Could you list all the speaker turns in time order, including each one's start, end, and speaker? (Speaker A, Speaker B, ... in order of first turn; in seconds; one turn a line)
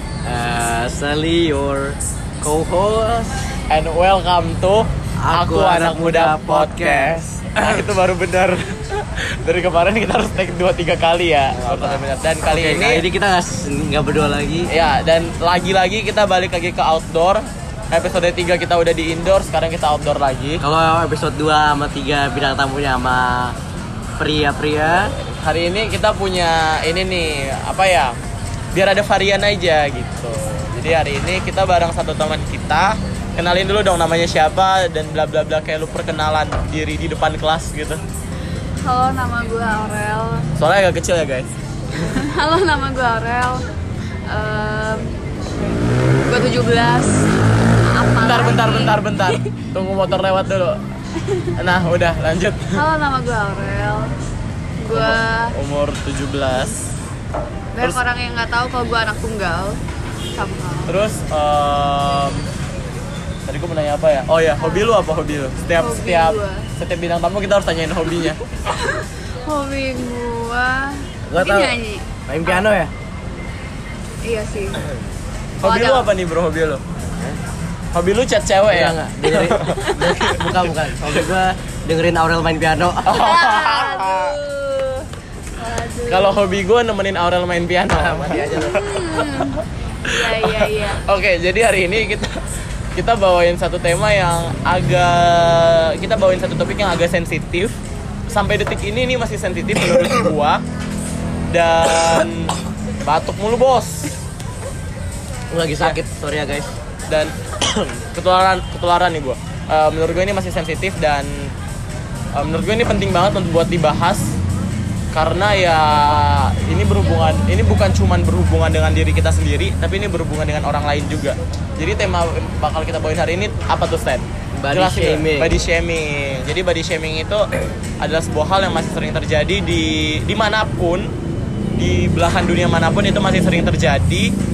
Speaker A: 0.2-3.5
Speaker B: 3.7-13.0
Speaker A: 5.2-7.9
Speaker A: 11.5-14.7
Speaker B: 14.7-20.6
Speaker A: 20.6-23.5
Speaker A: 24.2-25.1
Speaker B: 24.8-28.2
Speaker B: 28.7-38.0
Speaker C: 38.8-40.5
Speaker B: 40.6-41.5
Speaker C: 42.0-43.6
Speaker C: 44.3-45.1
Speaker C: 46.2-47.3
Speaker C: 47.8-49.5
Speaker B: 48.2-50.8
Speaker B: 51.6-52.8
Speaker C: 52.7-54.1
Speaker C: 54.8-55.5
Speaker B: 54.9-56.8
Speaker C: 57.7-59.8
Speaker C: 60.3-60.9
Speaker B: 60.9-62.5
Speaker B: 63.5-68.4
Speaker C: 65.8-66.7
Speaker C: 68.2-72.0
Speaker A: 71.3-71.8
Speaker A: 72.3-72.9
Speaker C: 74.2-74.8
Speaker B: 75.6-76.8
Speaker C: 75.6-76.1
Speaker A: 77.0-77.4
Speaker B: 77.9-81.3
Speaker A: 78.7-83.3
Speaker C: 79.8-80.3
Speaker B: 83.0-84.4
Speaker C: 83.1-86.4
Speaker B: 86.1-92.4
Speaker A: 87.9-88.9
Speaker C: 88.5-91.0
Speaker B: 92.9-100.6
Speaker B: 101.5-104.1
Speaker A: 105.5-106.7
Speaker B: 107.1-107.3
Speaker B: 108.1-111.5
Speaker B: 112.3-114.4
Speaker B: 115.1-127.5
Speaker A: 124.5-125.5
Speaker B: 128.0-131.1
Speaker B: 131.8-134.3